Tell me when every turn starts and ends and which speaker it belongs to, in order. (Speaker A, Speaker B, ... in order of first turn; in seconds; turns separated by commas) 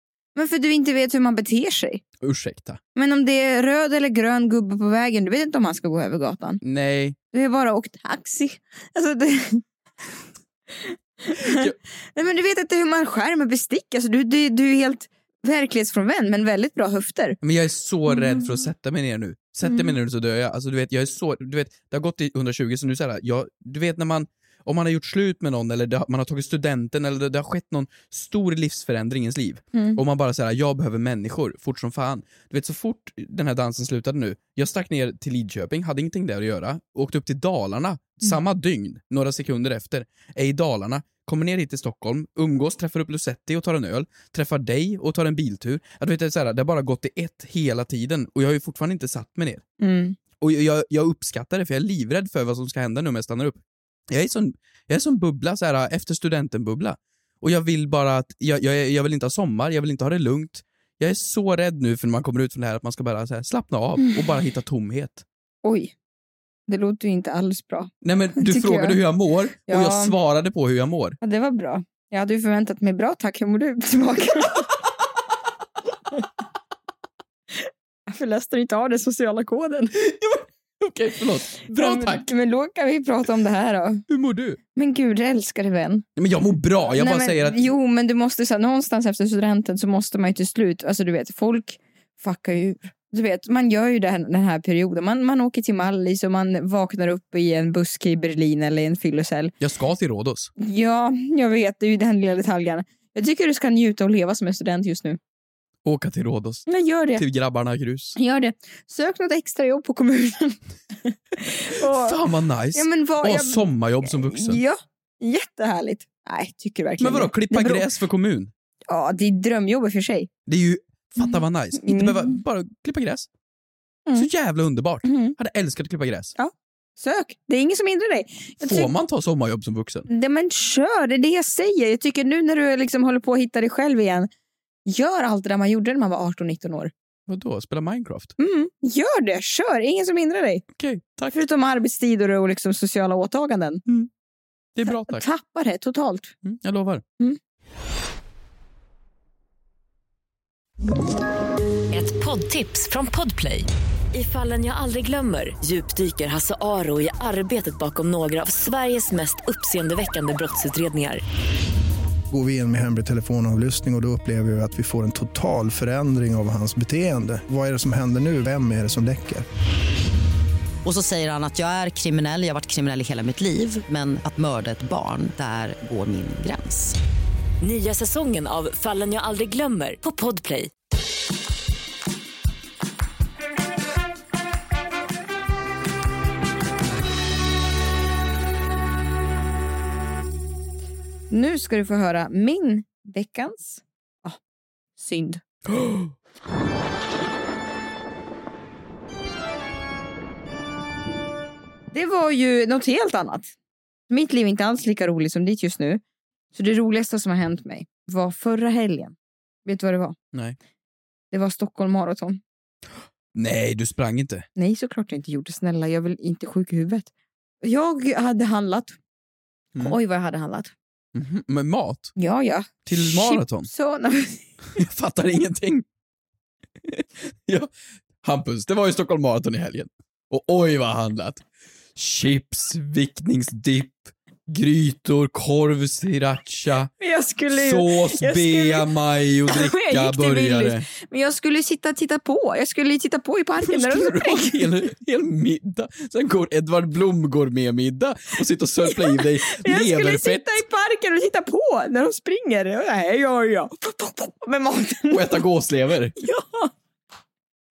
Speaker A: 0.3-2.0, Speaker B: 2.2-2.8, Speaker A: 2.9-6.6, Speaker B: 6.6-7.2, Speaker A: 7.3-9.6, Speaker A: 10.8-17.4, Speaker B: 11.4-11.7, Speaker B: 17.4-49.6, Speaker A: 18.1-18.6, Speaker A: 19.6-19.9, Speaker A: 29.7-30.0, Speaker A: 49.8-50.2, Speaker B: 50.4-65.2, Speaker A: 65.6-65.9, Speaker A: 66.7-69.0, Speaker B: 68.0-71.2, Speaker A: 69.7-70.1, Speaker A: 71.2-74.7, Speaker A: 78.1-79.9, Speaker B: 80.0-82.2, Speaker A: 81.7-84.0, Speaker B: 84.1-84.6, Speaker A: 84.8-86.0, Speaker B: 86.2-87.7, Speaker A: 87.0-99.5, Speaker B: 99.6-100.5, Speaker A: 100.6-105.2, Speaker B: 105.8-108.2, Speaker A: 106.7-107.2, Speaker A: 108.2-112.2, Speaker B: 111.9-114.6, Speaker A: 112.7-117.9, Speaker B: 117.0-118.5, Speaker A: 118.9-120.3, Speaker B: 120.5-123.3, Speaker A: 121.2-122.4, Speaker B: 124.2-126.3, Speaker A: 125.0-125.3, Speaker A: 126.3-128.9, Speaker B: 128.6-130.1, Speaker A: 130.1-134.3, Speaker A: 134.8-136.9, Speaker B: 137.3-138.3, Speaker A: 138.4-140.6, Speaker B: 140.8-141.3, Speaker A: 141.3-143.8, Speaker B: 144.8-145.2, Speaker A: 144.8-146.3, Speaker B: 146.4-147.0, Speaker C: 151.9-161.2, Speaker D: 162.3-169.4, Speaker E: 170.8-177.0, Speaker C: 177.6-180.7, Speaker A: 191.3-194.4, Speaker A: 195.0-195.4, Speaker B: 195.7-196.1, Speaker A: 201.9-203.5, Speaker A: 204.1-206.0, Speaker A: 206.5-209.1, Speaker A: 209.6-210.1, Speaker A: 211.3-212.4, Speaker B: 213.3-214.4, Speaker A: 214.6-217.1, Speaker A: 217.6-219.0, Speaker A: 219.8-220.7, Speaker B: 221.1-222.1, Speaker A: 222.2-224.8, Speaker B: 222.8-223.7, Speaker B: 224.8-225.8, Speaker B: 226.9-227.7, Speaker B: 228.2-231.4, Speaker B: 231.9-236.9, Speaker A: 237.0-238.9, Speaker B: 237.5-240.8, Speaker A: 239.5-244.8, Speaker B: 243.6-250.6, Speaker A: 248.8-255.4, Speaker B: 255.1-256.1, Speaker A: 256.2-256.7